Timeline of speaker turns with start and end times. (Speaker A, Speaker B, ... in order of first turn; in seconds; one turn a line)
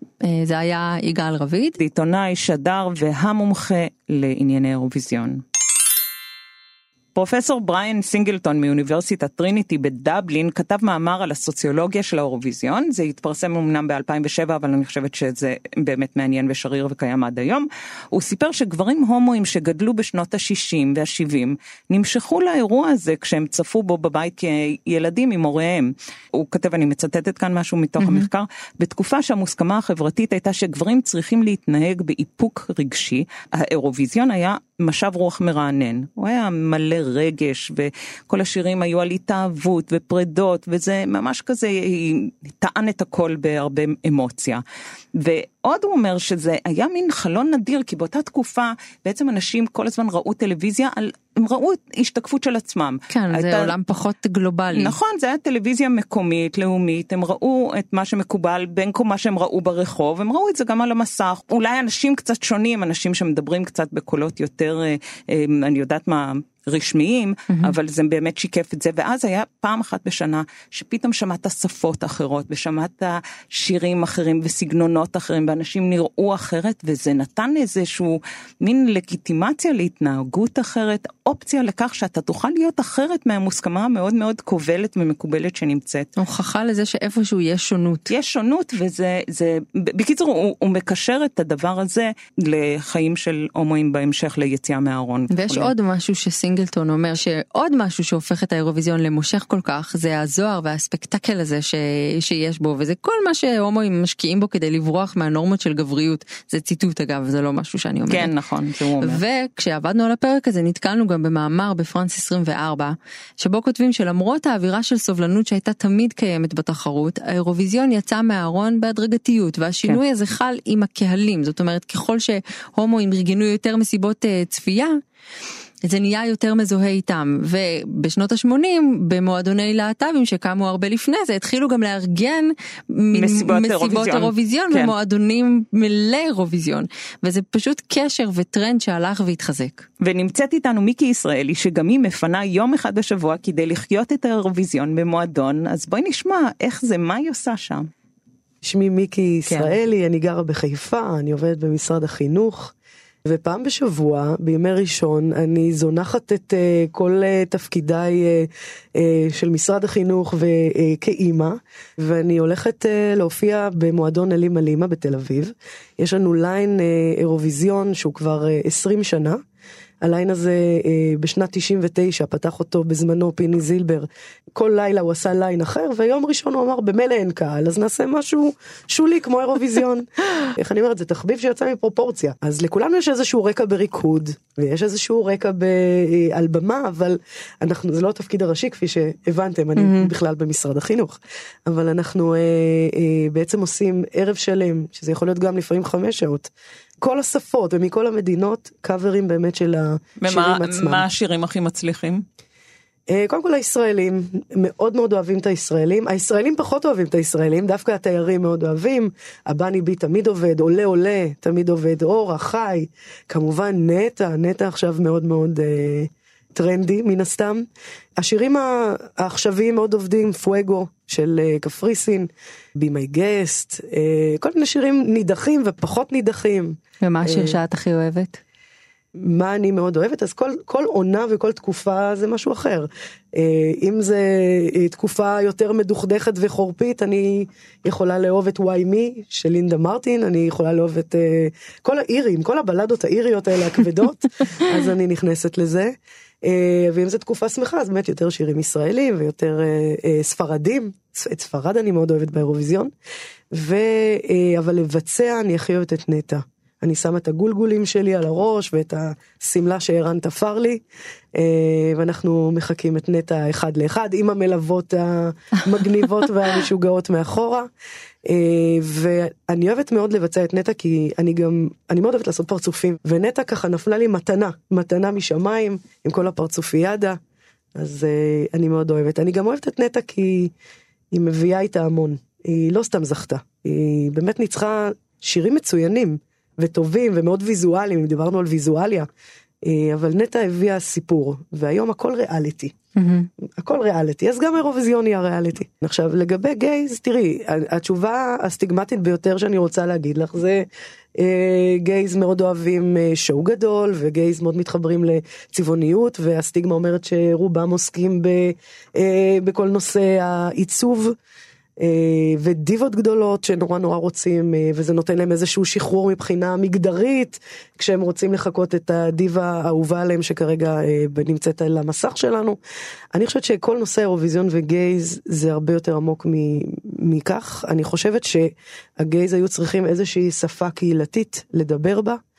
Speaker A: 0.2-1.8
Speaker B: 1.8-5.4
Speaker B: 7.2-44.6
Speaker A: 28.0-28.3
Speaker B: 45.1-53.7
Speaker A: 53.1-55.0
Speaker B: 54.7-86.1
Speaker A: 86.2-88.1
Speaker B: 88.1-95.7
Speaker A: 95.3-108.3
Speaker B: 108.1-109.2
Speaker A: 109.0-125.0
Speaker A: 125.8-139.9
Speaker B: 133.1-134.9
Speaker B: 140.0-147.9
Speaker C: 148.6-152.7
Speaker B: 149.5-149.7
Speaker C: 153.3-169.4
Speaker C: 170.0-201.0
Speaker A: 189.8-190.1
Speaker B: 200.2-202.2
Speaker C: 203.1-217.7
Speaker C: 218.2-227.6
Speaker A: 227.0-228.4
Speaker C: 229.2-252.9
Speaker C: 253.5-260.8
Speaker C: 261.4-267.7
Speaker C: 268.2-277.2
Speaker C: 277.8-280.5
Speaker C: 281.1-289.1
Speaker C: 289.6-292.8
Speaker A: 293.0-293.3
Speaker C: 293.6-300.7
Speaker C: 301.2-311.1
Speaker C: 311.8-322.6
Speaker C: 323.1-332.2